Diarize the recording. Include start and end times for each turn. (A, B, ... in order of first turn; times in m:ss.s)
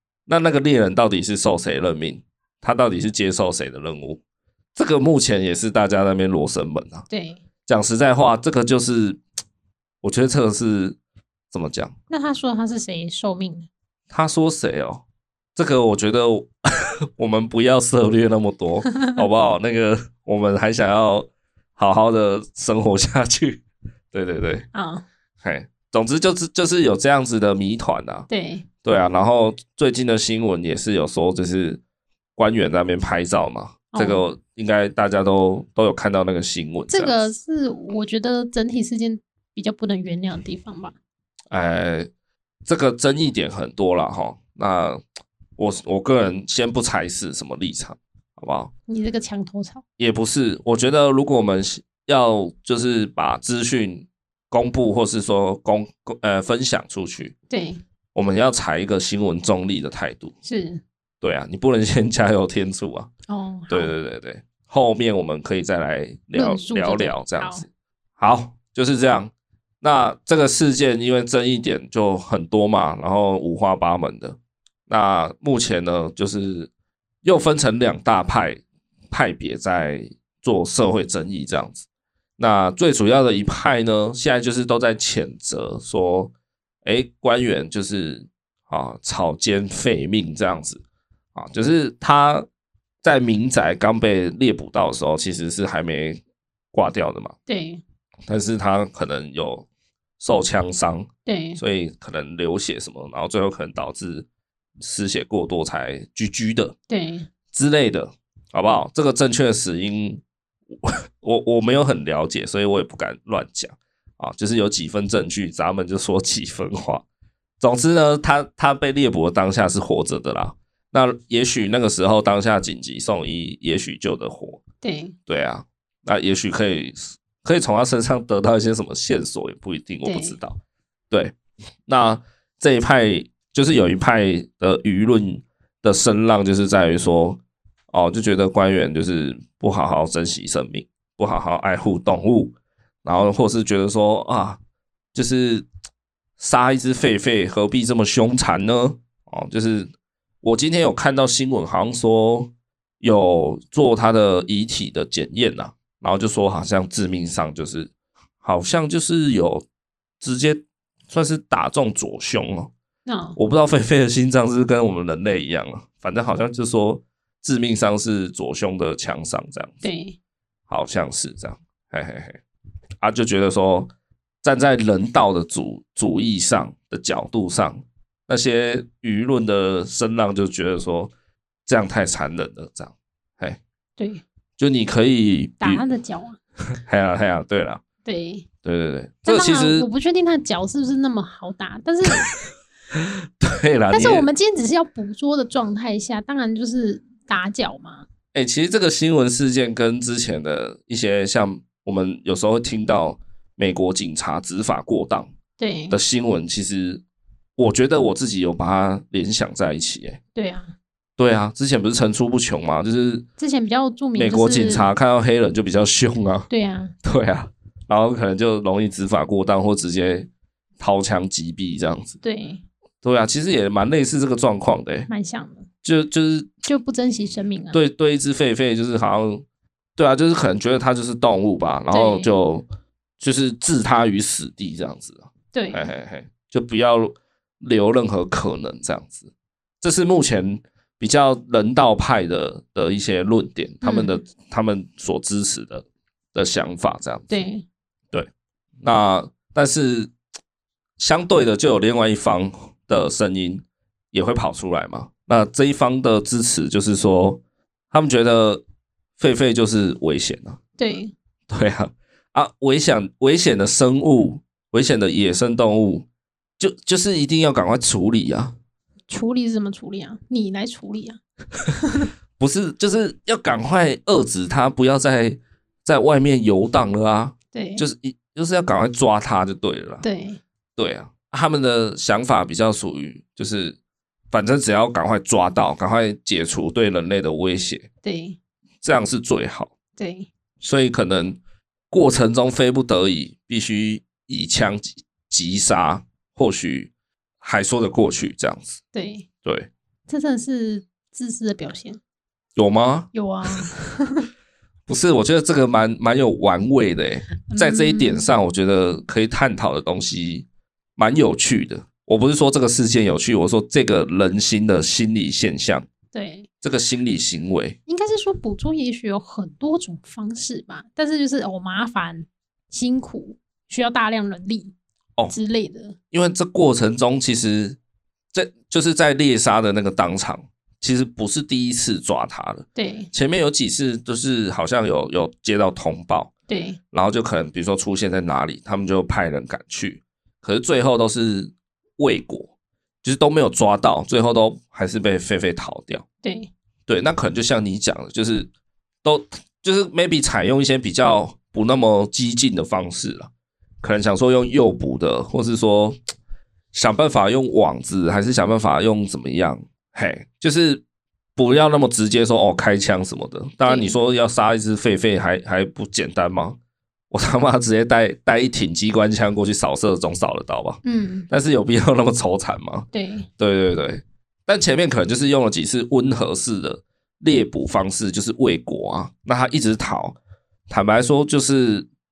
0:00.3-0:04.2 A
0:04.8-0:07.0 A
0:07.1-0:07.4 B
0:07.7-0:09.2 A
0:10.0-0:11.0 A
0:11.5-0:11.9 A
0:12.1-0:13.7 B
0:14.1-0:15.0 A
0:15.6-0:24.7 A
0:24.7-0:25.0 B
0:25.4-0:28.3 A
0:28.3-0:28.6 B
0:28.8-0:31.8 A
0:32.4-0:37.2 A
0:33.9-0:34.2 B
0:36.9-0:40.9 B
0:41.5-0:42.1 A
0:42.6-0:45.0 A
0:45.6-0:48.7 A
0:48.9-0:49.8 B
0:50.0-0:57.3 A
0:57.5-0:57.8 B
0:58.1-1:00.3 A
1:00.4-1:00.8 B
1:01.2-1:03.1 A
1:03.3-1:03.9 B
1:03.7-1:07.7 A
1:06.3-1:07.6 B
1:08.2-1:14.4 A
1:14.9-1:16.7 A
1:17.2-1:21.8 A
1:22.4-1:26.3 A
1:26.8-1:30.8 A
1:31.3-1:32.4 A
1:33.0-1:36.2 A
1:36.7-1:37.3 A
1:37.5-1:37.8 B
1:38.3-1:39.6 A
1:40.2-1:44.2 A
1:41.2-1:41.6 B
1:44.8-1:46.7 A
1:46.9-1:47.3 B
1:47.5-1:50.2 A
1:50.7-1:57.0 A
1:57.6-2:04.6 A
2:04.8-2:05.2 B
2:05.3-2:10.6 A
2:10.0-2:10.4 B
2:11.9-2:17.4 A
2:17.9-2:24.6 A
2:25.1-2:25.7 A
2:26.4-2:29.9 A
2:30.4-2:37.9 A
2:38.4-2:39.6 A
2:40.2-2:42.7 A
2:43.0-2:43.4 B
2:43.4-2:49.8 A
2:49.8-2:50.2 B
2:50.7-2:52.4 A
2:53.0-2:53.9 A
2:54.4-3:01.1 A
3:01.6-3:03.6 A
3:04.0-3:04.2 B
3:04.6-3:05.8 A
3:05.6-3:06.4 B
3:06.7-3:07.8 A
3:08.0-3:08.4 B
3:08.6-3:09.9 A
3:09.2-3:12.3 B
3:12.9-3:14.3 A
3:13.9-3:18.1 B
3:18.3-3:25.3 A
3:25.6-3:26.0 B
3:25.9-3:27.0 A
3:27.6-3:30.2 A
3:30.3-3:30.7 B
3:31.2-3:33.2 A
3:33.4-3:34.9 B
3:34.1-3:36.5 A
3:36.5-3:36.9 B
3:37.0-3:40.3 A
3:40.8-3:42.1 A
3:42.2-3:42.6 B
3:43.0-3:45.1 A
3:45.1-3:45.7 B
3:45.8-3:46.5 A
3:46.6-3:47.8 B
3:47.7-3:49.4 A
3:50.0-3:52.6 A
3:51.9-3:52.3 B
3:53.2-3:59.3 A
3:55.5-3:55.9 B
3:59.8-4:07.4 A
4:03.8-4:04.2 B
4:07.3-4:07.6 B
4:08.8-4:10.1 A
4:11.0-4:17.4 A
4:17.9-4:18.6 A
4:19.2-4:20.6 A
4:20.8-4:21.1 B
4:21.5-4:26.0 A
4:26.6-4:28.5 A
4:29.1-4:32.1 B
4:32.4-4:40.0 A
4:37.5-4:37.8 B
4:40.0-4:40.4 B
4:40.8-4:43.8 A
4:44.3-4:47.9 A
4:48.0-4:48.4 B
4:48.8-4:49.7 A
4:50.0-4:50.3 B
4:50.6-4:51.4 A
4:51.9-4:56.9 A
4:57.4-4:58.8 A
4:58.9-4:59.2 B
5:00.1-5:02.0 B
5:02.6-5:03.6 A
5:03.1-5:04.3 B
5:04.9-5:15.9 A
5:07.5-5:08.3 B
5:16.1-5:16.5 B
5:16.6-5:17.8 A
5:17.9-5:24.7 B
5:25.3-5:26.0 B
5:26.1-5:27.8 A
5:28.3-5:36.3 A
5:32.8-5:33.1 B
5:36.5-5:36.8 B
5:36.9-5:42.5 A
5:43.0-5:46.0 A
5:46.2-5:46.5 B
5:46.9-5:48.5 A
5:49.0-5:53.3 A
5:53.8-5:56.0 A
5:56.7-6:00.8 A
6:01.4-6:06.6 A
6:03.6-6:03.9 B
6:07.1-6:20.2 A
6:10.8-6:11.3 B
6:12.9-6:13.3 B
6:20.7-6:21.9 A